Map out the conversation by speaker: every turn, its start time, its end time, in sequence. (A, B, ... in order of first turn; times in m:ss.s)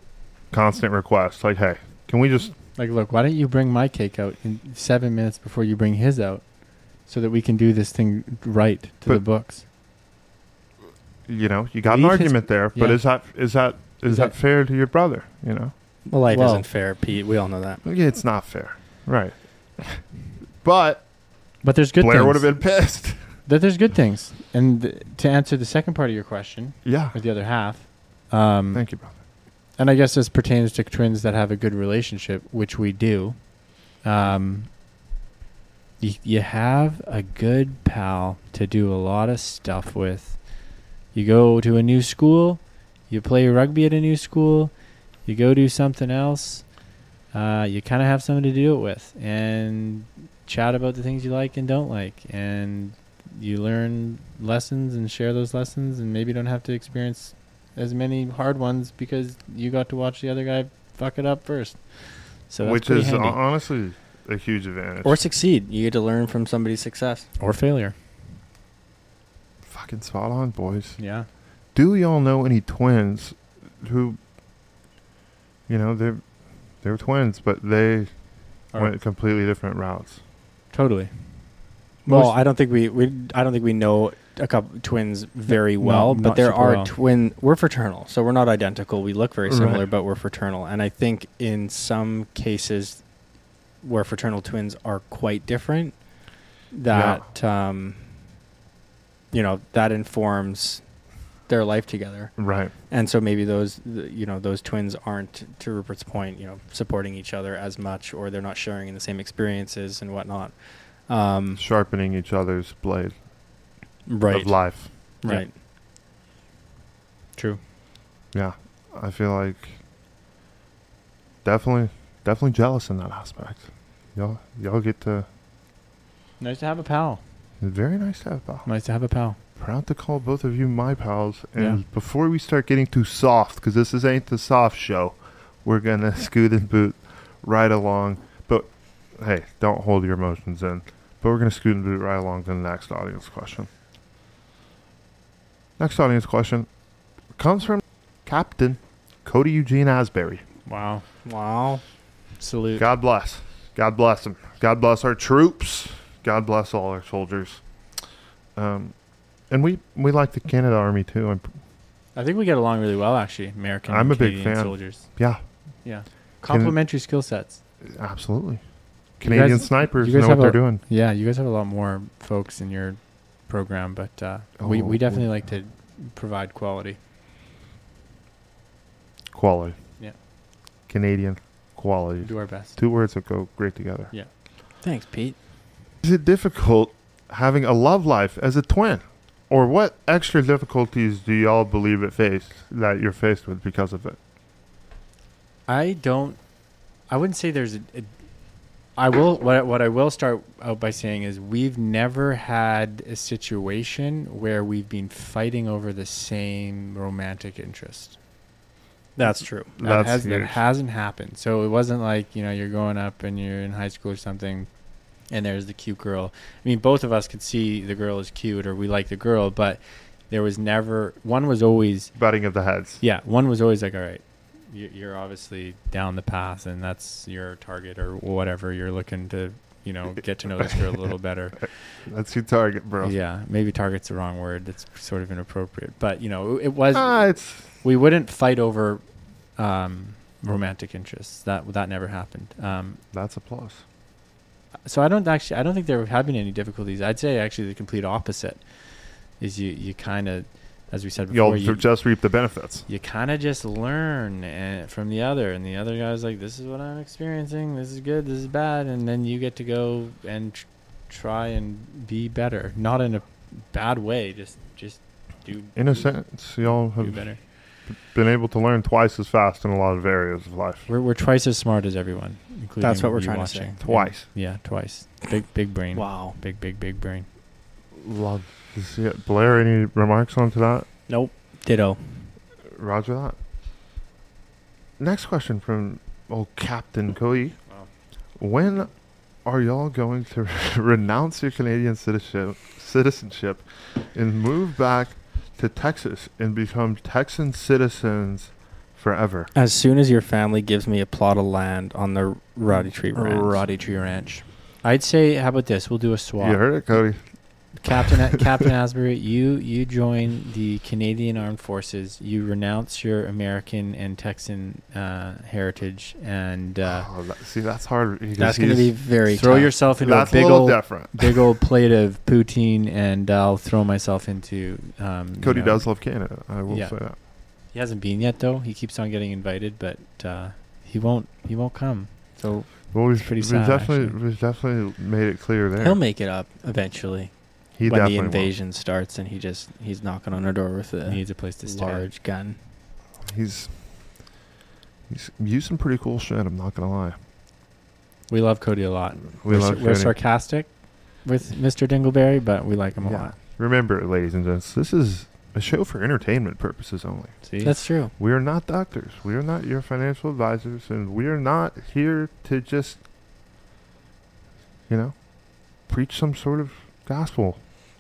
0:00.5-0:02.5 A
0:02.8-0:09.6 B
0:11.3-0:15.7 A
0:11.9-0:13.1 B
0:14.0-0:14.3 B
0:16.1-0:17.8 C
0:16.3-0:16.6 B
0:17.8-0:20.0 A
0:20.6-0:21.1 A
0:21.6-0:22.9 B
0:22.0-0:23.3 A
0:23.4-0:28.9 B
0:26.8-0:27.1 A
0:28.7-0:29.2 A
0:29.8-0:34.7 B
0:36.0-0:40.4 B
0:41.1-0:44.7 B
0:45.2-0:46.7 B
0:47.3-1:03.4 B
1:02.6-1:05.2 A
1:05.0-1:07.3 C
1:07.4-1:07.9 B
1:09.6-1:11.0 A
1:11.0-1:11.3 B
1:11.7-1:14.2 A
1:15.7-1:18.1 A
1:18.7-1:20.2 A
1:20.7-1:21.4 B
1:22.0-1:22.4 B
1:22.0-1:33.0 C
1:25.5-1:26.9 B
1:29.4-1:29.8 A
1:33.8-1:36.0 C
1:36.7-1:38.1 C
1:36.9-1:37.2 A
1:39.3-1:40.8 C
1:41.5-1:42.3 C
1:42.4-1:42.7 A
1:42.9-1:51.6 C
1:51.6-1:53.2 A
1:54.0-1:55.5 C
1:54.3-1:54.9 A
1:58.3-1:59.8 A
2:01.4-2:05.3 A
2:06.4-2:07.2 B
2:07.6-2:08.7 A
2:08.6-2:09.4 B
2:09.6-2:23.7 A
2:25.8-2:26.7 A
2:27.3-2:30.4 A
2:30.6-2:31.0 B
2:31.2-2:31.8 C
2:32.4-2:32.8 B
2:32.8-2:37.6 A
2:38.5-2:38.9 A
2:39.5-2:41.6 A
2:42.1-2:45.1 B
2:43.9-2:45.4 A
2:45.8-2:47.6 B
2:46.4-2:46.8 A
2:47.8-2:48.6 A
2:49.2-2:50.8 A
2:49.2-2:57.0 B
2:54.6-2:55.4 A
2:59.3-2:59.8 A
3:00.9-3:04.1 A
3:02.2-3:02.8 B
3:04.8-3:05.4 C
3:06.0-3:14.2 A
3:15.7-3:16.4 B
3:17.1-3:18.1 B
3:19.0-3:28.2 B
3:29.2-3:29.7 C
3:29.8-3:30.6 A
3:29.8-3:34.7 B
3:35.3-3:42.1 B
3:42.2-3:43.0 A
3:43.0-3:52.0 B
3:52.0-3:53.2 A
3:53.0-3:59.0 B
3:56.9-3:57.7 A
3:59.6-4:03.0 B
4:03.1-4:03.8 A
4:04.8-4:08.6 B
4:09.4-4:11.9 B
4:11.3-4:12.8 A
4:12.9-4:27.4 B
4:25.8-4:27.4 A
4:27.9-4:30.8 A
4:30.9-4:37.2 B
4:32.8-4:33.7 C
4:33.8-4:34.3 A
4:35.9-4:36.4 C
4:37.9-4:40.9 A
4:41.1-4:42.1 C
4:42.7-4:43.4 A
4:45.0-4:47.6 A
4:48.4-4:59.5 A
4:59.5-5:03.6 C
5:03.1-5:07.0 B
5:06.4-5:07.2 A
5:07.8-5:17.1 B
5:16.8-5:18.9 A
5:18.4-5:19.7 C
5:19.3-5:26.1 B
5:20.0-5:21.5 A
5:25.4-5:27.2 A
5:26.7-5:27.0 B
5:27.7-5:34.1 B
5:32.9-5:36.0 A
5:35.8-5:42.6 C
5:37.7-5:38.5 A
5:41.0-5:42.0 B
5:43.2-5:44.2 A
5:45.1-5:47.2 A
5:48.3-5:53.3 B
5:49.4-5:50.2 A
5:53.0-5:57.4 A
5:57.4-5:57.8 B
5:57.6-5:58.1 C
5:58.2-6:03.0 A
6:04.9-6:05.2 A
6:05.7-6:07.8 A